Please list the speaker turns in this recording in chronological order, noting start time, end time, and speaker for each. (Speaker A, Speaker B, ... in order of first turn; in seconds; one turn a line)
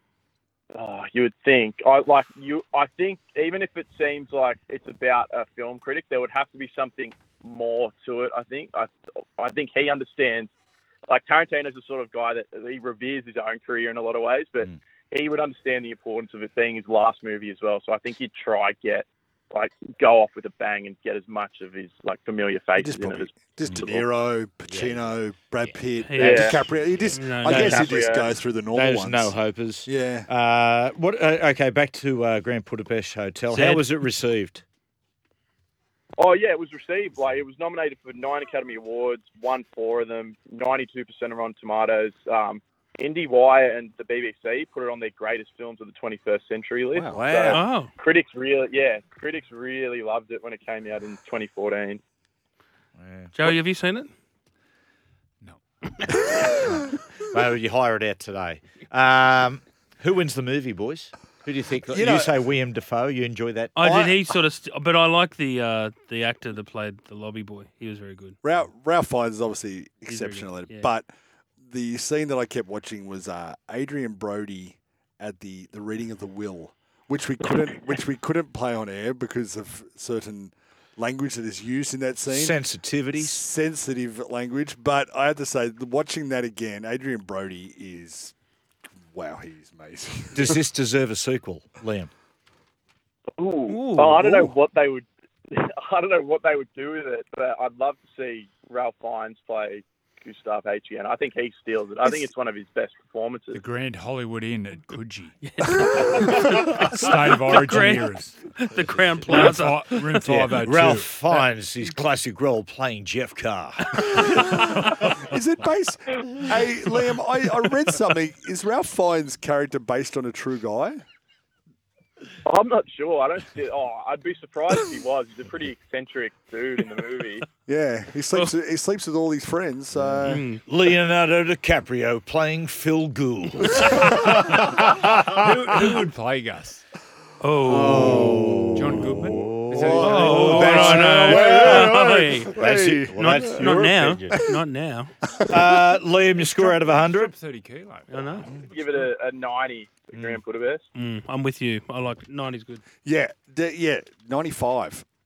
Speaker A: 0.7-10.5
Speaker A: 11.1-24.1
Speaker B: 22.8-29.3
Speaker C: 24.7-25.8
Speaker D: 26.0-26.5
Speaker A: 26.1-26.6
Speaker D: 27.1-27.9
Speaker A: 27.4-28.3
Speaker C: 28.7-34.6
Speaker B: 29.9-30.3
Speaker D: 33.5-33.9
Speaker A: 36.2-52.0
Speaker C: 47.1-47.6
Speaker D: 47.5-47.9
Speaker C: 53.0-53.3
Speaker D: 53.3-54.1
Speaker C: 57.3-63.7
Speaker B: 61.9-62.4
Speaker D: 63.8-68.4
Speaker B: 63.8-64.3
Speaker B: 68.4-71.1
Speaker D: 70.1-70.9
Speaker B: 71.6-82.6
Speaker C: 82.3-83.4
Speaker B: 83.1-88.3
Speaker B: 89.0-90.6
Speaker C: 90.3-92.1
Speaker A: 93.4-103.6
Speaker D: 93.7-94.5
Speaker E: 103.5-111.2
Speaker D: 105.4-106.6
Speaker D: 107.5-110.2
Speaker C: 110.2-114.9
Speaker B: 114.6-121.0
Speaker A: 122.5-127.5
Speaker B: 127.7-130.4
Speaker C: 129.9-135.4
Speaker D: 130.2-130.6
Speaker E: 135.1-136.8
Speaker D: 137.4-138.3
Speaker C: 137.7-142.0
Speaker E: 137.9-141.4
Speaker B: 139.7-143.7
Speaker D: 140.0-142.6
Speaker C: 142.6-144.4
Speaker D: 143.1-145.1
Speaker B: 144.3-144.6
Speaker C: 145.5-147.3
Speaker E: 146.4-149.0
Speaker D: 148.1-148.5
Speaker A: 148.7-150.9
Speaker C: 150.1-150.4
Speaker D: 150.9-152.8
Speaker B: 153.0-155.0